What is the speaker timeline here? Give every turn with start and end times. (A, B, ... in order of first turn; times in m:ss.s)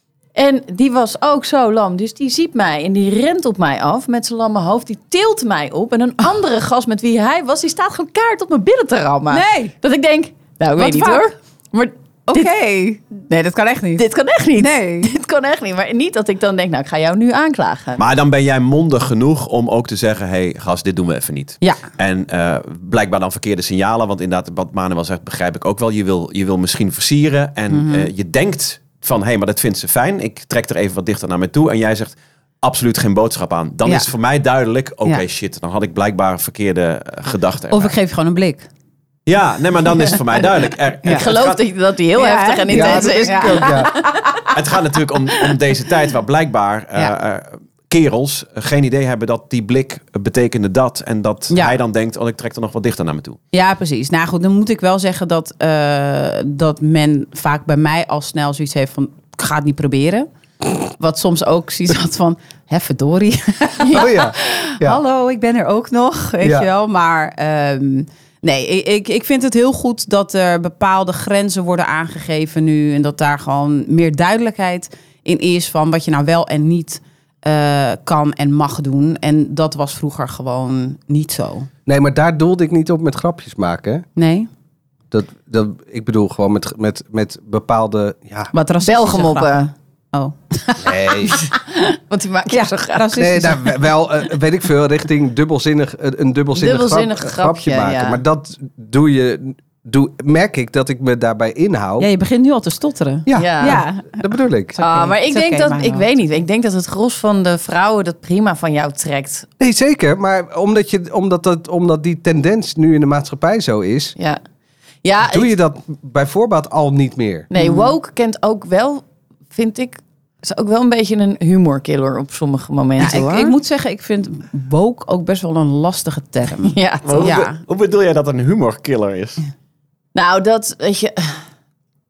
0:00.3-0:12.5 A
0:09.3-0:09.7 B
0:10.8-0:11.3 B
0:12.3-0:14.0 B
0:14.0-0:18.0 A
0:14.6-0:15.1 B
0:18.0-0:37.9 C
0:27.7-0:28.1 B
0:37.7-0:38.7 B
0:39.2-0:41.6 C
0:41.0-0:44.2 A
0:42.2-0:44.4 B
0:42.7-0:43.9 D
0:44.5-0:53.4 C
0:51.5-0:51.8 B
0:53.5-1:00.3 B
1:00.8-1:21.7 B
1:03.9-1:05.0 D
1:06.4-1:06.7 D
1:21.8-1:24.0 D
1:24.2-1:24.5 B
1:25.1-1:28.5 D
1:28.5-1:31.6 B
1:28.8-1:29.7 A
1:30.8-1:31.3 D
1:31.9-1:33.3 A
1:32.5-1:33.9 B
1:33.1-1:42.1 D
1:36.5-1:38.2 A
1:42.0-1:46.1 B
1:43.2-1:44.8 D
1:43.3-1:43.8 A
1:44.8-1:49.5 A
1:49.6-1:54.1 D
1:55.0-1:55.6 A
1:55.3-1:57.5 D
1:57.5-2:03.5 A
1:57.6-1:57.9 B
2:03.0-2:07.6 B
2:06.7-2:07.4 A
2:07.0-2:09.4 C
2:10.1-2:11.4 A